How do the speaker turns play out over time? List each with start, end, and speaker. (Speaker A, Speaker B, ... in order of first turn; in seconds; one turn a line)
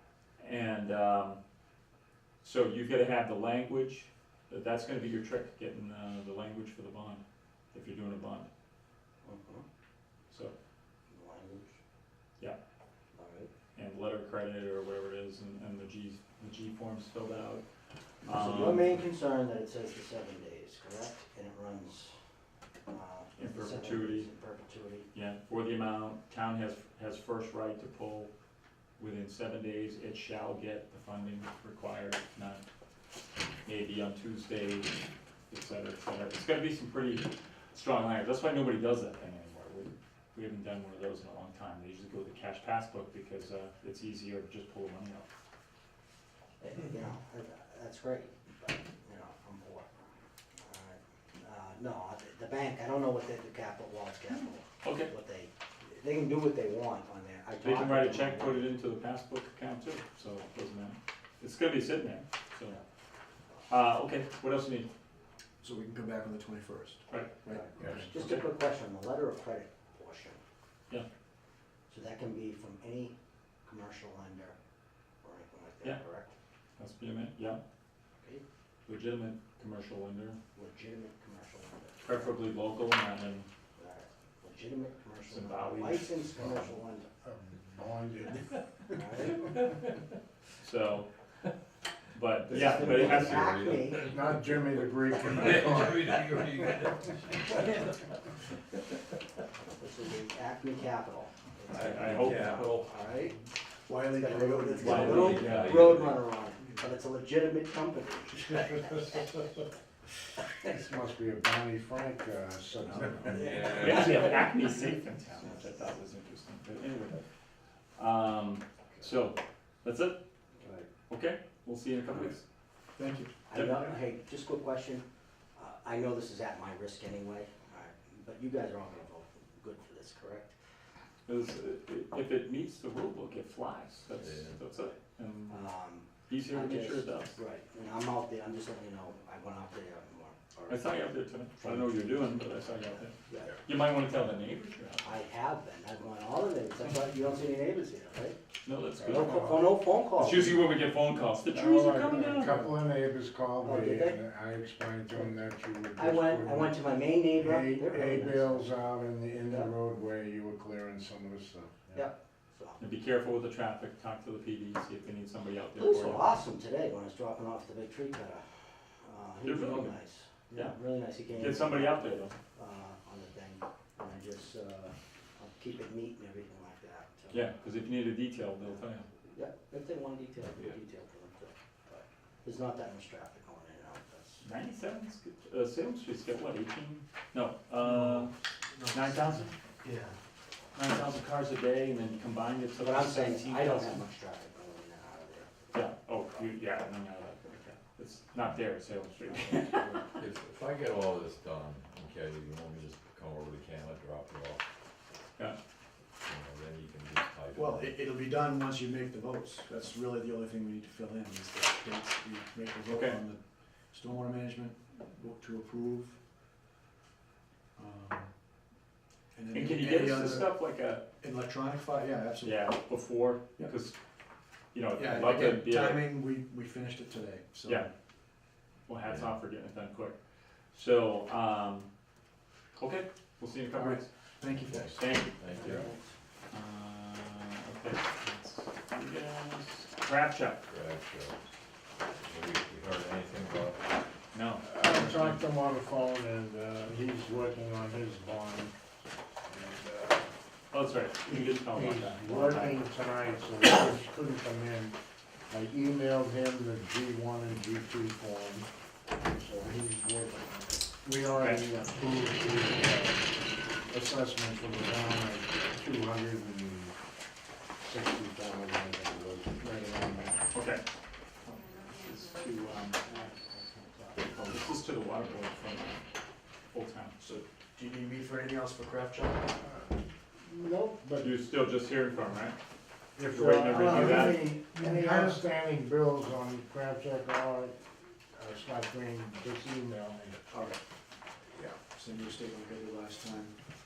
Speaker A: 0.4-1.4
Speaker A: 2.4-8.5
Speaker B: 9.2-9.6
Speaker B: 11.1-11.7
Speaker B: 13.1-13.5
Speaker A: 13.8-17.6
Speaker A: 18.2-19.0
Speaker B: 18.3-22.1
Speaker B: 22.9-25.1
Speaker A: 23.4-24.3
Speaker A: 25.1-28.3
Speaker A: 29.0-32.6
Speaker A: 33.6-34.9
Speaker A: 35.5-45.3
Speaker B: 46.6-49.9
Speaker B: 50.6-58.7
Speaker A: 54.8-55.1
Speaker A: 57.6-62.8
Speaker A: 63.7-64.9
Speaker C: 65.6-68.1
Speaker A: 67.1-67.3
Speaker B: 67.5-70.4
Speaker D: 67.8-68.1
Speaker A: 68.1-68.5
Speaker B: 71.9-74.5
Speaker B: 75.2-76.3
Speaker A: 76.8-77.6
Speaker A: 78.8-80.4
Speaker B: 80.5-82.4
Speaker A: 82.0-83.5
Speaker B: 83.8-87.1
Speaker A: 85.3-86.3
Speaker E: 86.3-88.6
Speaker B: 88.9-89.5
Speaker A: 90.6-91.1
Speaker A: 92.1-93.4
Speaker B: 92.5-94.1
Speaker D: 92.5-94.1
Speaker E: 93.9-96.4
Speaker D: 95.2-98.0
Speaker B: 99.8-103.3
Speaker D: 101.7-102.9
Speaker A: 101.7-102.6
Speaker C: 103.9-105.4
Speaker B: 104.1-109.4
Speaker A: 104.8-106.0
Speaker D: 104.8-106.3
Speaker C: 106.6-106.8
Speaker E: 110.7-113.6
Speaker A: 112.8-117.2
Speaker B: 113.3-114.5
Speaker D: 113.4-114.0
Speaker B: 115.3-115.9
Speaker A: 118.0-120.2
Speaker B: 120.6-120.9
Speaker A: 121.1-122.4
Speaker C: 123.0-123.3
Speaker B: 123.5-125.0
Speaker A: 123.5-123.9
Speaker B: 125.5-130.5
Speaker A: 131.3-137.4
Speaker D: 134.2-134.7
Speaker B: 135.5-143.6
Speaker A: 140.7-145.2
Speaker B: 145.0-148.4
Speaker A: 148.6-152.6
Speaker B: 149.0-150.8
Speaker E: 151.5-162.1
Speaker B: 153.6-154.2
Speaker B: 155.9-158.7
Speaker B: 159.4-159.7
Speaker B: 161.9-162.8
Speaker A: 162.8-166.3
Speaker B: 165.8-168.4
Speaker B: 169.0-177.5
Speaker A: 169.4-170.0
Speaker A: 170.5-170.8
Speaker A: 171.3-172.3
Speaker A: 177.3-179.1
Speaker B: 179.3-184.4
Speaker A: 184.4-188.3
Speaker C: 187.8-189.3
Speaker A: 188.9-189.6
Speaker C: 189.8-190.2
Speaker A: 190.7-194.0
Speaker B: 192.8-195.6
Speaker A: 195.7-199.9
Speaker B: 199.5-199.9
Speaker D: 200.2-204.6
Speaker D: 206.2-208.1
Speaker C: 207.5-216.2
Speaker A: 212.9-213.2
Speaker C: 217.8-218.3
Speaker C: 219.3-220.6
Speaker A: 219.5-221.1
Speaker C: 221.2-222.7
Speaker A: 222.4-223.9
Speaker A: 224.7-226.0
Speaker C: 225.0-227.9
Speaker A: 228.9-230.2
Speaker D: 229.0-229.3
Speaker A: 230.7-231.9
Speaker A: 232.8-234.1
Speaker C: 233.7-235.1
Speaker D: 234.5-235.8
Speaker A: 234.9-235.4
Speaker B: 235.5-236.1
Speaker A: 236.5-240.6
Speaker D: 240.7-241.5
Speaker D: 242.2-243.9
Speaker A: 244.3-245.4
Speaker E: 244.6-248.7
Speaker E: 249.4-250.3
Speaker A: 250.7-252.8
Speaker E: 251.2-254.9
Speaker E: 255.5-258.7
Speaker E: 259.2-267.0
Speaker A: 261.3-261.6
Speaker E: 267.8-270.4
Speaker A: 270.5-270.8
Speaker A: 271.4-273.3
Speaker A: 274.2-276.0
Speaker A: 276.7-277.1
Speaker C: 277.2-279.5
Speaker E: 279.6-281.3
Speaker A: 281.2-282.6
Speaker E: 283.1-287.7
Speaker A: 283.3-284.4
Speaker C: 283.8-285.3
Speaker E: 288.3-290.5
Speaker C: 290.5-290.8
Speaker C: 291.5-293.6